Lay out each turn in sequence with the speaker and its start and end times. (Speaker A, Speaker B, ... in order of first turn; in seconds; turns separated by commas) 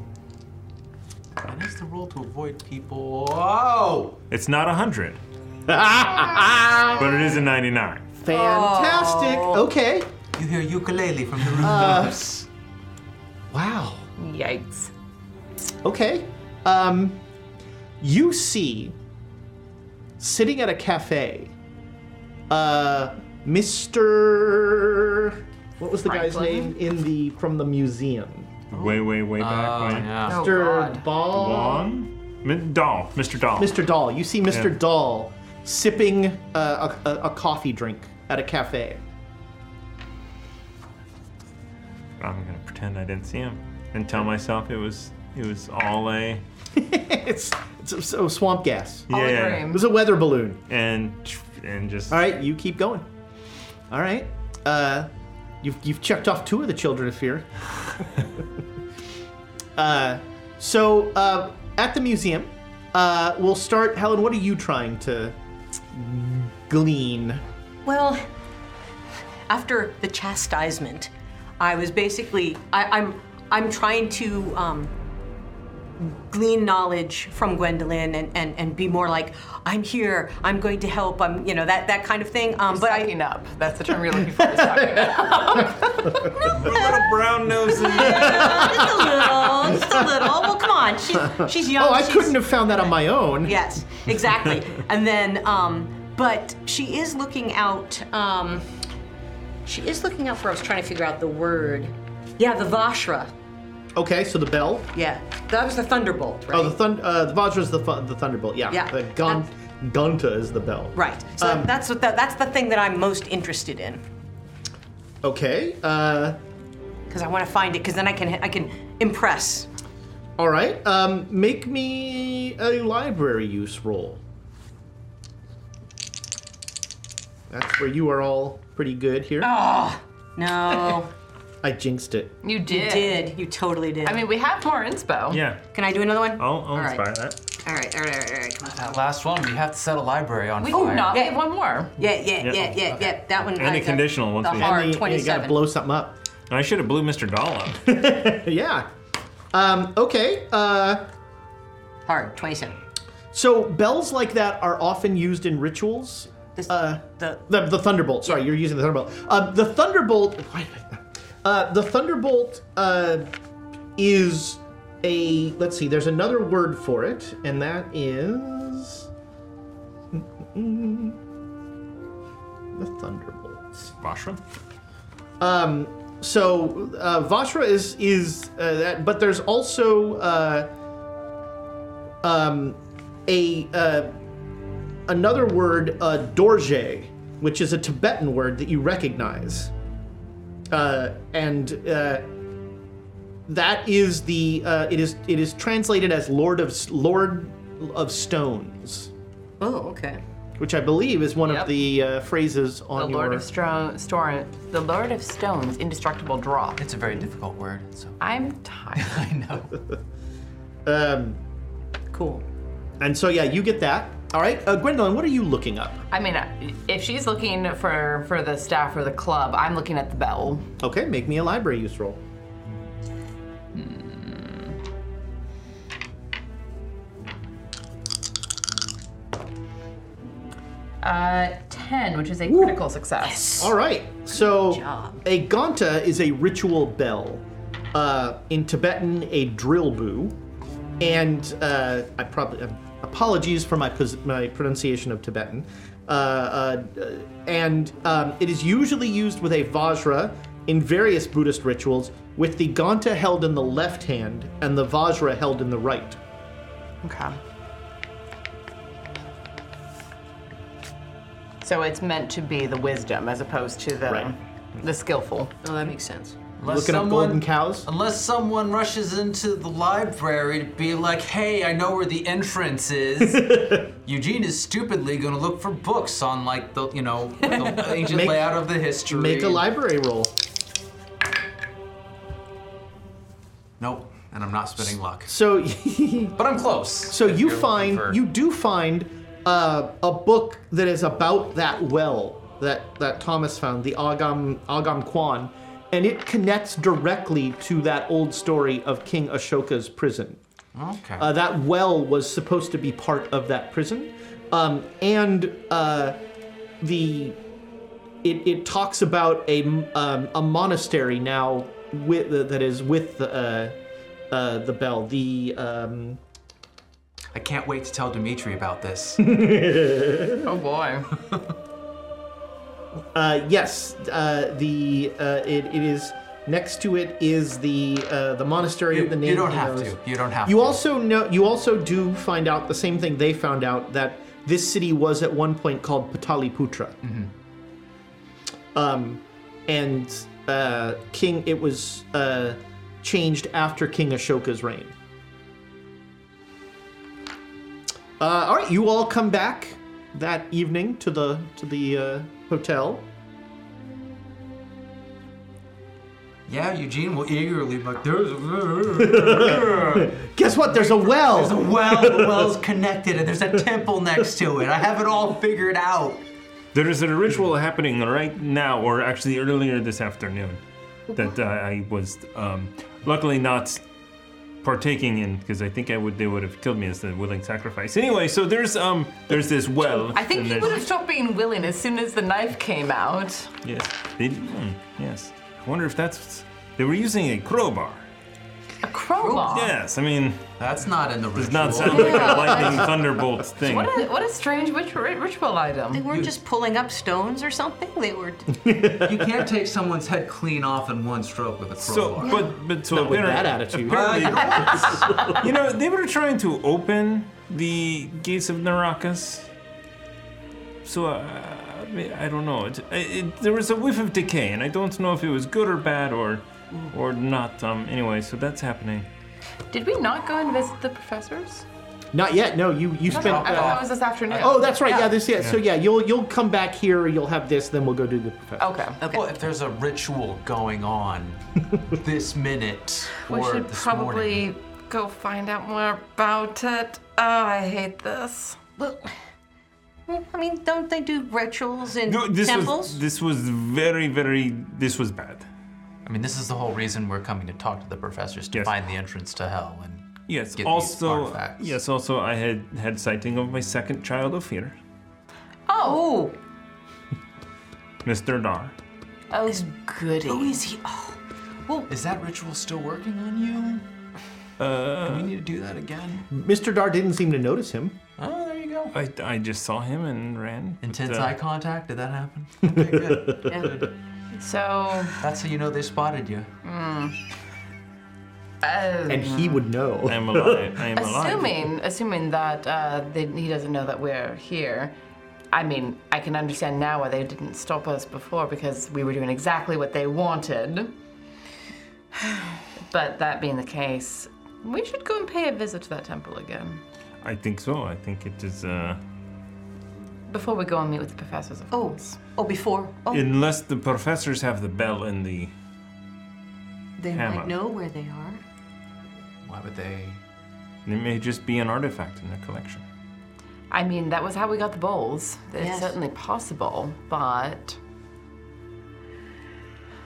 Speaker A: 1.4-4.2, Speaker B: 4.3-5.2, Speaker C: 5.7-7.3, Speaker B: 7.0-8.1, Speaker C: 8.2-10.1, Speaker D: 8.3-9.6, Speaker A: 10.4-12.4, Speaker C: 11.6-12.4, Speaker C: 13.5-14.1, Speaker E: 14.2-14.9, Speaker C: 15.8-17.2, Speaker C: 18.0-18.9, Speaker C: 20.2-21.5, Speaker C: 22.5-28.6, Speaker E: 26.1-26.7, Speaker B: 28.7-30.3, Speaker A: 29.4-30.5, Speaker E: 30.3-31.1, Speaker C: 30.3-31.9, Speaker B: 31.3-33.8, Speaker C: 33.6-39.0, Speaker B: 42.2-46.4, Speaker C: 46.7-49.1, Speaker B: 49.1-49.8, Speaker E: 49.1-49.8, Speaker C: 49.6-50.6, Speaker B: 50.7-52.2, Speaker C: 52.1-53.1, Speaker C: 53.9-55.1, Speaker C: 55.6-57.5, Speaker C: 59.8-65.3, Speaker C: 65.9-67.4, Speaker D: 67.8-68.2, Speaker D: 69.5-74.9, Speaker D: 76.0-83.1, Speaker E: 82.7-86.6, Speaker C: 84.3-86.5, Speaker B: 86.5-88.9, Speaker D: 87.7-92.4, Speaker C: 87.8-90.5, Speaker C: 91.2-93.6, Speaker D: 93.4-98.7, Speaker D: 99.7-103.3, Speaker C: 104.0-104.9, Speaker D: 104.9-106.8, Speaker C: 106.5-111.7, Speaker D: 108.7-109.4, Speaker D: 111.0-114.0, Speaker C: 115.2-116.4, Speaker D: 117.1-119.7, Speaker C: 120.4-124.2, Speaker C: 127.5-129.5, Speaker D: 129.4-131.1, Speaker C: 131.6-132.4, Speaker E: 132.4-133.3, Speaker D: 132.7-134.2, Speaker E: 134.0-135.4, Speaker B: 135.3-137.4, Speaker D: 135.7-138.9, Speaker A: 138.7-141.2, Speaker E: 140.6-142.0, Speaker D: 140.7-141.4, Speaker D: 142.0-145.6, Speaker B: 142.4-144.8, Speaker C: 144.5-146.2, Speaker B: 146.5-147.9, Speaker C: 147.9-148.9, Speaker C: 149.5-151.1, Speaker D: 152.1-152.8, Speaker C: 153.3-163.3, Speaker D: 156.6-157.4, Speaker C: 164.0-169.1, Speaker C: 170.1-171.2, Speaker C: 172.7-173.7, Speaker B: 173.8-174.4, Speaker C: 175.4-180.7, Speaker C: 182.2-184.1, Speaker C: 185.1-189.7, Speaker C: 190.7-192.2, Speaker C: 193.5-199.1, Speaker D: 199.6-200.2, Speaker C: 200.6-203.4, Speaker E: 201.4-201.7, Speaker E: 202.9-206.8, Speaker A: 206.8-208.2, Speaker E: 208.2-209.2, Speaker A: 209.0-209.8, Speaker C: 210.8-211.4, Speaker D: 212.1-212.4, Speaker C: 213.0-216.1, Speaker E: 216.1-220.7, Speaker C: 220.8-222.2, Speaker E: 223.8-224.7, Speaker E: 231.0-233.7, Speaker C: 232.5-232.8, Speaker D: 233.2-233.7, Speaker C: 233.6-240.4, Speaker D: 234.4-235.2, Speaker C: 241.0-256.2, Speaker E: 257.0-257.4, Speaker E: 261.6-265.5, Speaker D: 265.6-266.4, Speaker A: 266.6-279.6, Speaker C: 266.6-267.9, Speaker C: 273.2-273.9, Speaker C: 277.7-280.3, Speaker A: 283.8-285.3, Speaker C: 285.3-286.4, Speaker A: 286.4-288.2, Speaker C: 287.1-300.4, Speaker A: 300.7-301.3, Speaker C: 301.2-306.2, Speaker C: 306.8-307.4, Speaker C: 308.2-313.8, Speaker C: 314.3-316.2, Speaker A: 317.3-319.4, Speaker C: 319.2-320.5, Speaker E: 320.4-321.1, Speaker C: 323.1-337.0, Speaker A: 328.9-330.8, Speaker A: 337.0-337.3, Speaker C: 338.8-344.9, Speaker C: 348.2-353.1, Speaker A: 356.5-366.2, Speaker C: 359.0-362.6, Speaker B: 366.7-373.8, Speaker B: 374.6-380.9, Speaker E: 380.1-383.5, Speaker B: 383.6-388.1, Speaker E: 388.8-389.7, Speaker D: 389.2-389.6, Speaker B: 389.5-390.5, Speaker A: 390.6-392.7, Speaker B: 391.4-393.9, Speaker D: 391.8-392.9, Speaker E: 393.6-396.1, Speaker D: 395.9-398.6, Speaker A: 396.1-396.4, Speaker C: 398.6-399.5, Speaker A: 399.0-402.5, Speaker B: 401.8-409.5, Speaker C: 402.9-405.4, Speaker A: 403.9-405.3, Speaker E: 404.5-405.4, Speaker B: 410.8-419.1, Speaker E: 419.7-421.6, Speaker C: 422.1-428.8, Speaker A: 423.1-424.5, Speaker E: 423.1-425.1, Speaker E: 428.6-429.0, Speaker D: 429.0-429.3, Speaker A: 429.1-434.4, Speaker E: 433.2-438.7, Speaker D: 438.8-439.1, Speaker D: 440.1-443.0, Speaker B: 442.1-445.5, Speaker A: 446.1-451.8, Speaker B: 450.3-454.8, Speaker E: 455.7-456.1, Speaker D: 455.8-456.3, Speaker B: 458.0-458.7, Speaker E: 459.3-460.6, Speaker D: 460.2-461.9, Speaker A: 461.9-463.9, Speaker B: 464.6-465.3, Speaker A: 465.0-466.3, Speaker C: 466.3-468.0, Speaker A: 468.2-468.9, Speaker B: 468.9-471.4, Speaker A: 470.8-473.9, Speaker C: 472.7-473.5, Speaker D: 473.5-473.8, Speaker E: 474.4-475.2, Speaker A: 475.2-476.5, Speaker E: 476.6-477.2, Speaker E: 478.6-479.7, Speaker C: 479.1-480.7, Speaker B: 480.1-481.7, Speaker E: 481.0-484.9, Speaker E: 485.5-490.9, Speaker E: 492.8-496.8, Speaker B: 497.2-499.0, Speaker E: 500.3-502.2, Speaker D: 501.7-503.3, Speaker B: 503.1-505.5, Speaker D: 507.0-508.4, Speaker B: 507.1-507.6, Speaker A: 509.4-510.2, Speaker B: 510.9-512.8, Speaker E: 513.7-517.8, Speaker D: 515.6-516.0